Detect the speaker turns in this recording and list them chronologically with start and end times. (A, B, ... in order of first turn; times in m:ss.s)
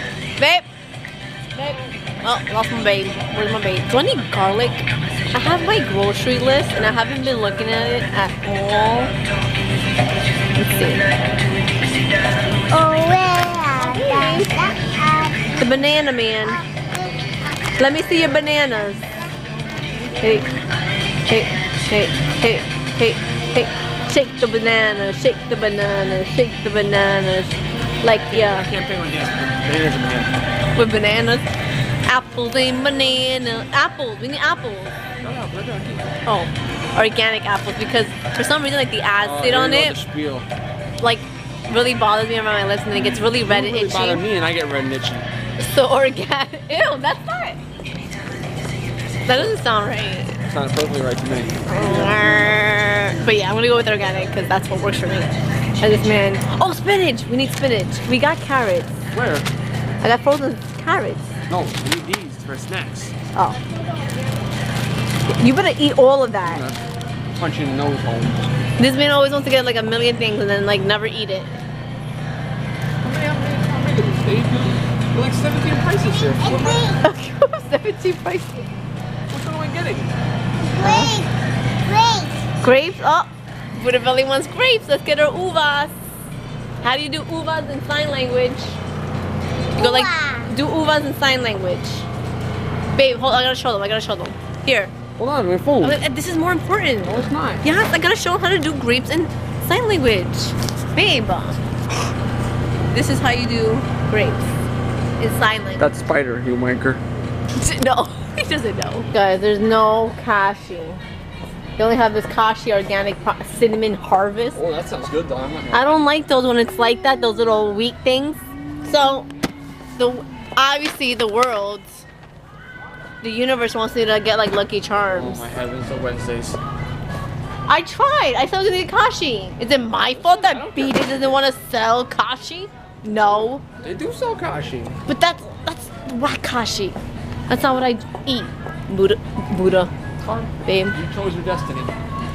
0:00.4-0:00.6 A
0:01.5-0:09.1 A
0:10.6-0:11.0 A
0:12.7-0:15.6 B
0:13.8-0:14.5 A
0:15.6-0:16.6 A
0:16.6-0:17.9 B
0:17.8-0:19.0 A
0:18.4-0:18.7 B
0:20.2-0:20.5 A
0:21.3-0:28.7 A
0:28.3-0:30.3 C
0:30.8-0:31.5 A
0:32.0-0:35.0 A
0:35.2-0:36.1 C
0:36.2-0:40.0 A
0:39.2-0:40.5 C
0:41.0-0:44.2 A
0:43.5-0:45.3 C
0:45.6-0:47.6 A
0:49.2-0:50.4 A
0:49.3-0:49.6 C
0:50.4-0:52.3 C
0:51.6-0:59.0 A
0:59.1-0:59.5 C
1:00.0-1:01.3 A
1:01.5-1:03.1 C
1:05.3-1:06.6 A
1:06.4-1:06.8 C
1:07.3-1:08.4 C
1:08.8-1:11.6 A
1:13.0-1:16.9 C
1:16.2-1:17.0 B
1:17.0-1:18.7 A
1:19.3-1:20.1 C
1:20.7-1:22.4 B
1:20.8-1:21.1 A
1:22.6-1:26.0 A
1:26.8-1:28.8 A
1:29.8-1:30.5 B
1:29.8-1:32.1 A
1:32.9-1:34.9 A
1:35.2-1:36.0 C
1:35.8-1:41.6 A
1:37.0-1:37.6 C
1:42.9-1:44.4 A
1:45.2-1:45.9 A
1:45.8-1:47.0 C
1:47.6-1:51.0 A
1:51.8-1:54.6 A
1:54.5-1:56.0 C
1:55.7-1:59.3 A
2:00.0-2:02.0 A
2:03.2-2:05.5 A
2:05.1-2:06.6 C
2:07.7-2:13.6 A
2:10.1-2:11.2 C
2:13.8-2:15.0 C
2:15.1-2:17.0 A
2:17.5-2:19.9 A
2:20.2-2:21.9 C
2:20.6-2:21.0 A